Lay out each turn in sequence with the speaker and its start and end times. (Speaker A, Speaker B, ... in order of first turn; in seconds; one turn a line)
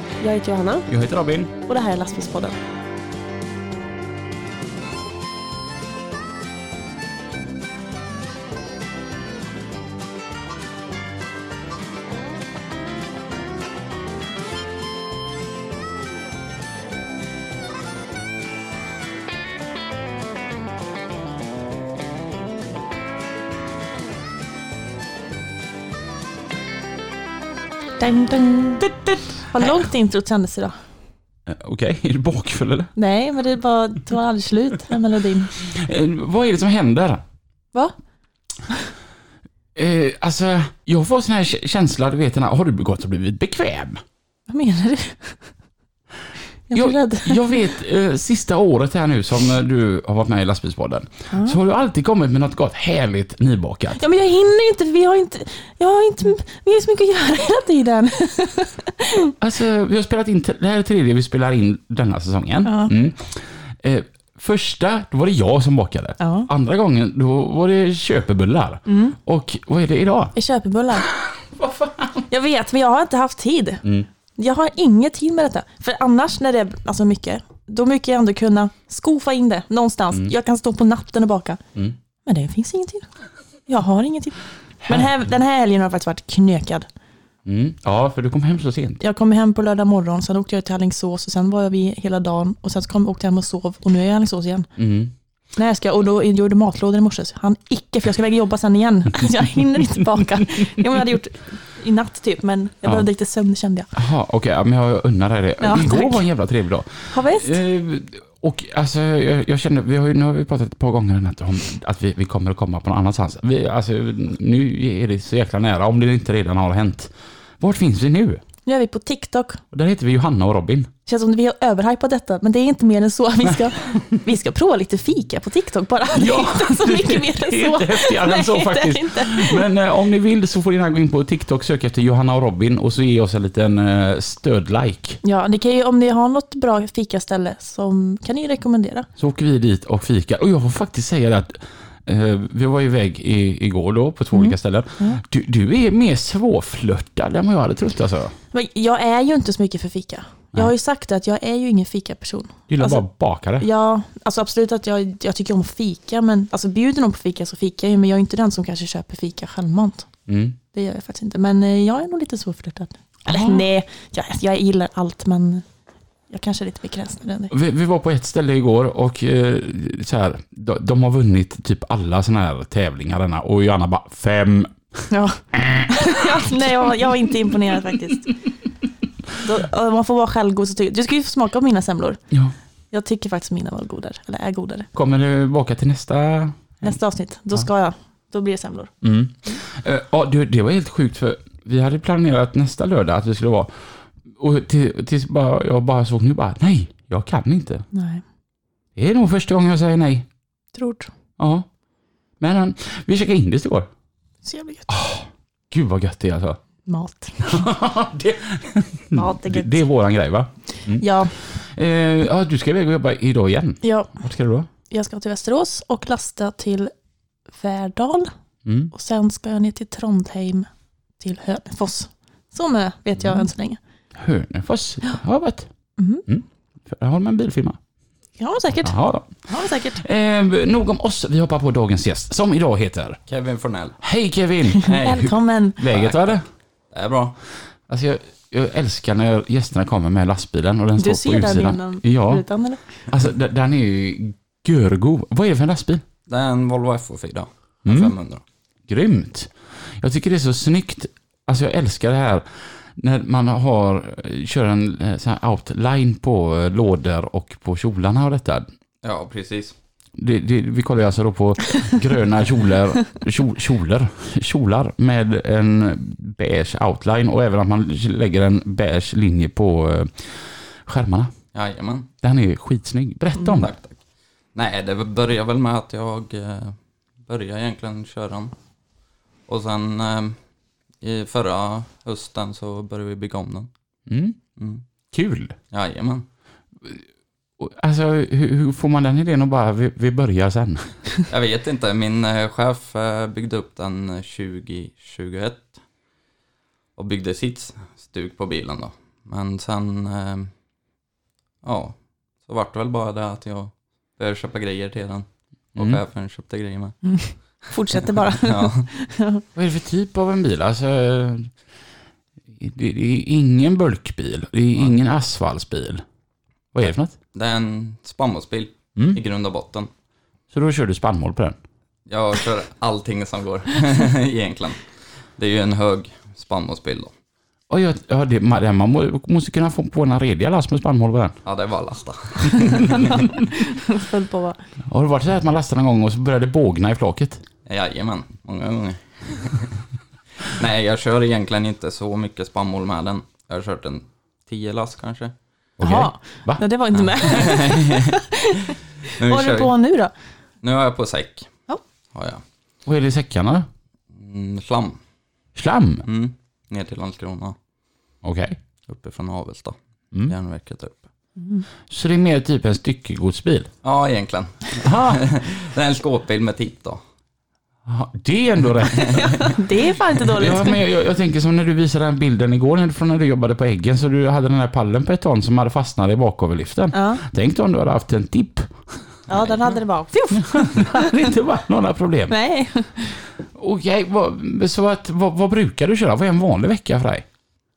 Speaker A: 0.2-0.8
Speaker B: 0.9-1.5
Speaker A: 1.6-2.5
Speaker A: 28.0-30.8
Speaker B: 31.5-32.9
Speaker A: 33.0-35.5
Speaker B: 35.6-37.2
Speaker B: 39.7-44.0
Speaker A: 44.5-45.5
Speaker A: 46.7-47.6
Speaker B: 46.7-54.0
Speaker A: 51.3-51.6
Speaker A: 54.0-59.3
Speaker B: 59.4-70.3
Speaker A: 62.6-62.9
Speaker A: 66.2-66.5
Speaker A: 68.9-69.2
Speaker A: 70.3-71.1
Speaker B: 71.1-72.3
Speaker A: 72.3-73.8
Speaker A: 74.3-81.6
Speaker A: 82.2-83.1
Speaker A: 83.7-86.9
Speaker B: 84.8-85.2
Speaker B: 87.5-89.0
Speaker A: 89.0-94.7
Speaker B: 94.8-95.1
Speaker A: 95.5-103.9
Speaker B: 104.0-118.4
Speaker A: 105.6-106.2
Speaker A: 107.1-107.6
Speaker A: 118.7-119.6
Speaker B: 119.7-120.9
Speaker A: 121.0-129.6
Speaker B: 126.1-135.2
Speaker A: 135.2-139.1
Speaker B: 139.2-148.3
Speaker A: 144.3-145.2
Speaker A: 148.5-153.0
Speaker B: 152.7-153.7
Speaker A: 153.6-160.1
Speaker B: 160.3-160.6
Speaker A: 160.7-165.6
Speaker B: 163.3-163.6
Speaker A: 166.3-167.5
Speaker B: 167.5-176.9
Speaker A: 175.1-178.3
Speaker A: 179.4-182.2
Speaker A: 182.9-184.9
Speaker B: 184.9-186.9
Speaker A: 186.8-188.9
Speaker B: 189.0-193.7
Speaker B: 194.3-197.8
Speaker A: 197.9-198.2
Speaker B: 198.9-200.3
Speaker A: 200.7-201.1
Speaker B: 201.4-201.7
Speaker B: 202.4-203.9
Speaker A: 204.4-205.0
Speaker B: 204.9-206.6
Speaker A: 206.8-207.7
Speaker B: 207.4-214.7
Speaker A: 209.1-209.8
Speaker A: 210.9-211.3
Speaker A: 213.8-214.1
Speaker A: 214.9-216.9
Speaker A: 217.5-218.3
Speaker B: 218.6-218.9
Speaker A: 218.9-223.8
Speaker B: 224.1-225.7
Speaker A: 226.0-226.2
Speaker B: 226.3-227.8
Speaker A: 228.4-230.0
Speaker B: 228.8-233.2
Speaker C: 233.3-234.0
Speaker B: 234.0-236.4
Speaker A: 234.8-235.8
Speaker C: 234.8-235.2
Speaker C: 235.8-236.4
Speaker C: 236.9-237.4
Speaker B: 237.9-242.4
Speaker A: 241.0-242.8
Speaker B: 243.1-246.0
Speaker C: 246.3-248.4
Speaker B: 247.8-248.1
Speaker B: 248.9-258.7
Speaker C: 259.0-259.7
Speaker B: 260.2-271.3
Speaker C: 271.5-272.1
Speaker B: 272.2-273.7
Speaker C: 273.4-274.0
Speaker C: 274.5-278.5
Speaker C: 279.5-280.4
Speaker C: 281.0-283.7
Speaker B: 284.1-284.4
Speaker C: 284.6-284.8
Speaker B: 285.1-285.5
Speaker C: 285.7-286.2
Speaker B: 287.6-291.0
Speaker C: 291.3-295.7
Speaker C: 297.0-300.5
Speaker C: 301.6-307.0
Speaker A: 307.0-309.4
Speaker C: 308.4-308.9
Speaker B: 309.6-311.5
Speaker B: 312.6-316.0
Speaker B: 316.7-317.1
Speaker C: 317.3-319.9
Speaker B: 318.9-319.2
Speaker B: 320.5-321.6
Speaker C: 322.1-324.8
Speaker C: 325.4-327.1
Speaker B: 327.7-331.4
Speaker C: 331.4-333.1
Speaker A: 332.5-334.6
Speaker B: 334.9-337.4
Speaker C: 337.6-339.8
Speaker C: 340.4-345.3
Speaker B: 345.8-346.6
Speaker A: 345.8-350.1
Speaker C: 346.9-348.1
Speaker C: 349.2-349.7
Speaker C: 350.6-351.5
Speaker C: 352.1-352.4
Speaker B: 352.9-353.6
Speaker C: 354.1-355.0
Speaker B: 355.6-356.1
Speaker C: 356.1-357.6
Speaker B: 358.2-358.6
Speaker C: 358.9-361.0
Speaker A: 361.4-361.6
Speaker B: 361.9-363.7
Speaker C: 363.8-367.0
Speaker B: 364.8-365.3
Speaker B: 367.9-369.6
Speaker C: 369.0-369.3
Speaker A: 369.1-370.8
Speaker B: 370.3-378.7
Speaker A: 376.9-377.2
Speaker A: 379.3-381.3
Speaker C: 379.3-379.7
Speaker B: 380.3-382.3
Speaker A: 382.3-383.2
Speaker B: 383.5-387.2